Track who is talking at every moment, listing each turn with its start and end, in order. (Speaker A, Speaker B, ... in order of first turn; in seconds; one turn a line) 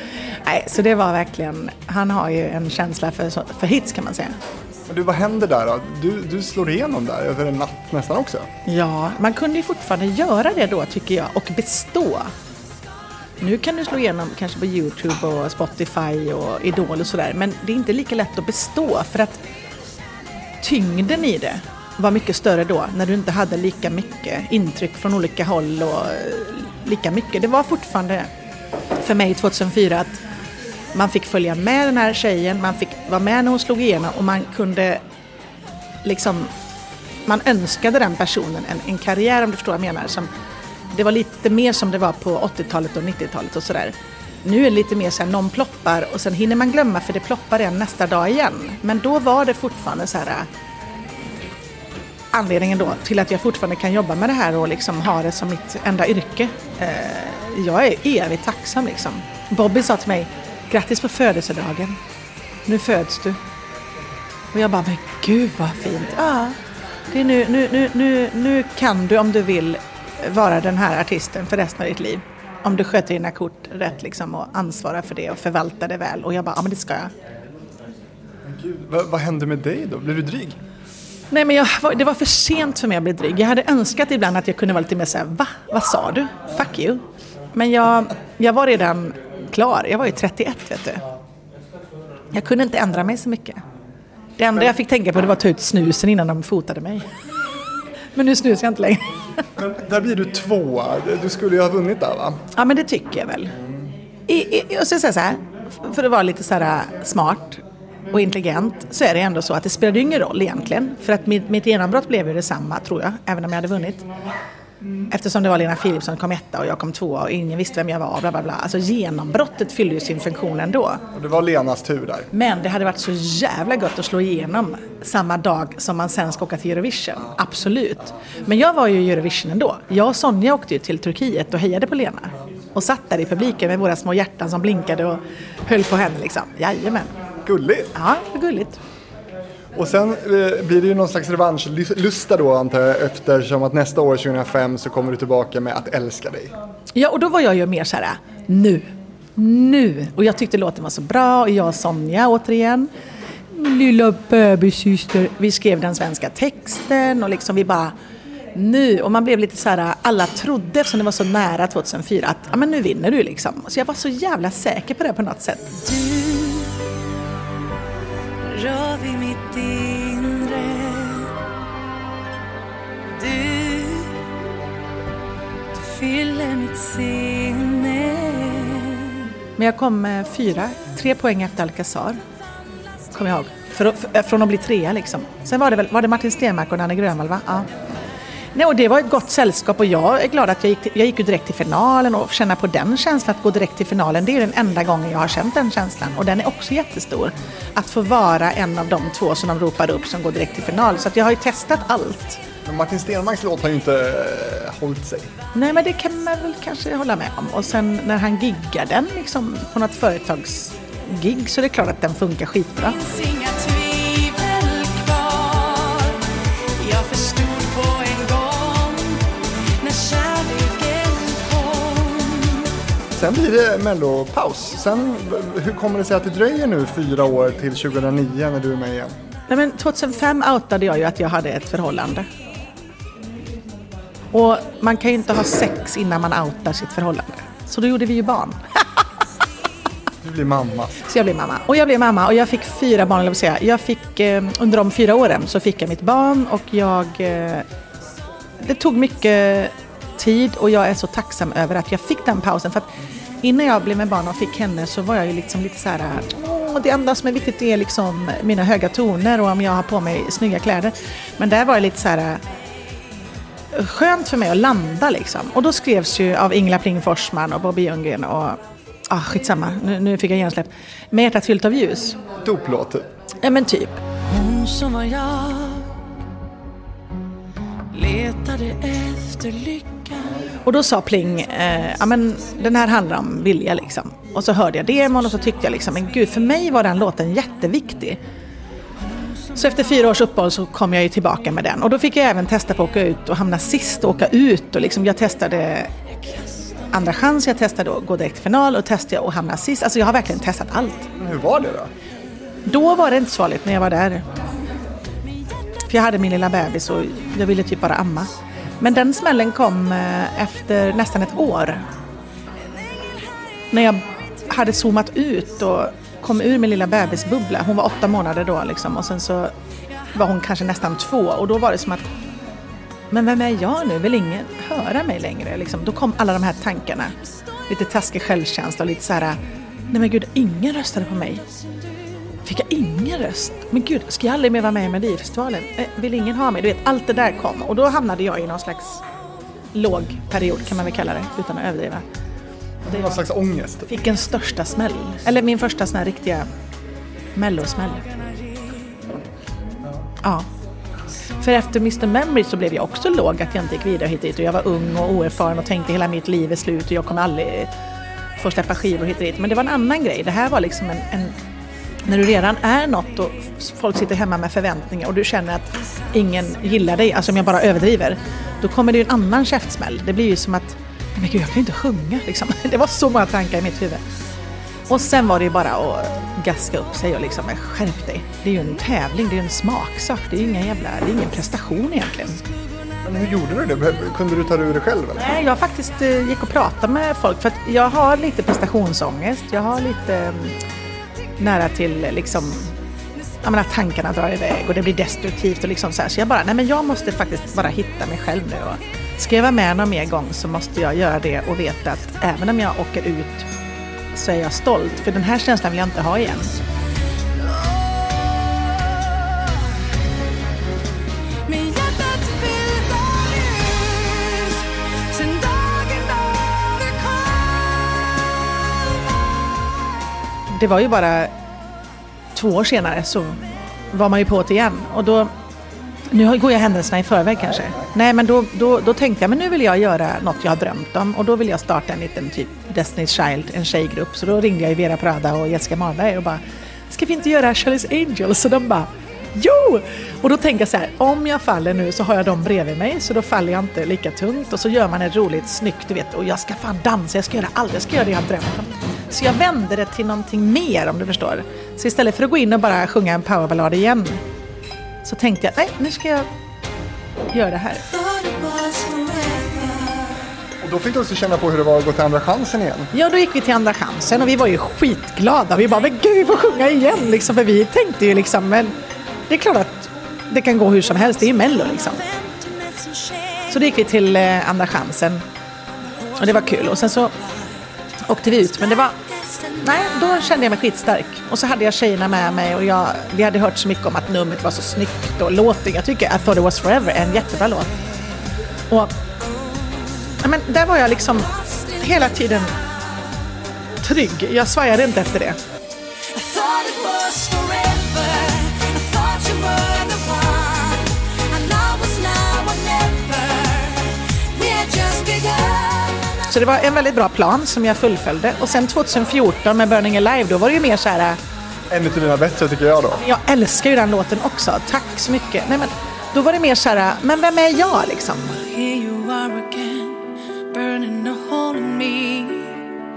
Speaker A: 0.3-4.3
Speaker B: 4.9-8.5
Speaker A: 8.6-12.3
Speaker A: 13.4-19.4
Speaker A: 20.6-28.3
Speaker A: 29.0-30.2
Speaker A: 30.9-35.0
Speaker A: 36.0-36.5
Speaker A: 37.2-40.3
Speaker A: 40.9-50.5
Speaker A: 52.3-62.0
Speaker A: 62.6-63.4
Speaker A: 64.5-66.6
Speaker A: 67.1-77.1
Speaker B: 78.4-80.6
Speaker A: 81.3-91.0
Speaker A: 92.3-93.6
Speaker A: 94.4-97.1
Speaker A: 98.1-99.1
Speaker B: 99.6-102.4
Speaker A: 102.5-103.5
Speaker A: 104.3-114.1
Speaker A: 115.1-121.0
Speaker B: 121.1-122.3
Speaker A: 122.3-137.1
Speaker B: 137.4-137.9
Speaker A: 137.9-138.8
Speaker B: 139.7-146.5
Speaker A: 146.9-152.9
Speaker A: 153.5-157.9
Speaker A: 158.5-165.8
Speaker C: 165.9-166.9
Speaker C: 168.5-171.3
Speaker C: 173.2-174.2
Speaker C: 175.7-179.2
Speaker A: 179.6-182.2
Speaker A: 183.1-187.7
Speaker A: 188.5-202.4
Speaker B: 202.6-205.3
Speaker A: 205.5-213.0
Speaker C: 213.0-222.7
Speaker B: 223.1-229.1
Speaker A: 229.5-232.3
Speaker A: 234.3-238.8
Speaker B: 240.2-240.9
Speaker A: 241.0-247.7
Speaker A: 248.6-252.9
Speaker A: 253.4-262.4
Speaker A: 263.7-272.2
Speaker B: 272.4-273.1
Speaker A: 273.4-274.1
Speaker C: 274.3-275.9
Speaker C: 277.9-280.2
Speaker A: 280.6-288.2
Speaker A: 289.5-295.9
Speaker A: 296.9-301.1
Speaker B: 301.2-301.9
Speaker A: 302.6-304.3
Speaker A: 305.9-311.9
Speaker A: 313.7-319.5
Speaker A: 320.1-322.1
Speaker A: 323.1-327.1
Speaker A: 327.7-329.4
Speaker A: 329.9-331.4
Speaker A: 332.4-339.0
Speaker A: 339.7-342.0
Speaker B: 342.8-343.9
Speaker A: 343.9-346.5
Speaker A: 347.3-348.1
Speaker A: 350.2-350.5
Speaker A: 351.4-357.7
Speaker A: 358.4-361.4
Speaker A: 362.1-374.0
Speaker A: 374.9-382.4
Speaker B: 383.0-385.3
Speaker A: 385.2-390.6
Speaker A: 391.4-392.7
Speaker A: 393.4-403.5
Speaker A: 404.1-406.5
Speaker C: 407.4-409.5
Speaker C: 411.4-419.1
Speaker A: 420.5-421.3
Speaker A: 422.3-425.3
Speaker A: 426.1-454.2
Speaker A: 455.0-456.3
Speaker A: 457.3-457.9
Speaker C: 457.9-460.1
Speaker B: 460.6-462.9
Speaker A: 462.9-468.7
Speaker A: 469.3-472.1
Speaker C: 472.1-473.4
Speaker A: 473.5-475.2
Speaker C: 476.1-476.7
Speaker A: 476.1-477.1
Speaker A: 478.0-478.9
Speaker C: 479.1-479.6
Speaker A: 479.6-487.7
Speaker A: 488.7-488.9
Speaker A: 490.2-492.5
Speaker A: 493.8-495.4
Speaker C: 496.0-506.3
Speaker A: 506.2-511.2
Speaker B: 511.7-513.0
Speaker A: 513.0-518.4
Speaker C: 518.4-522.6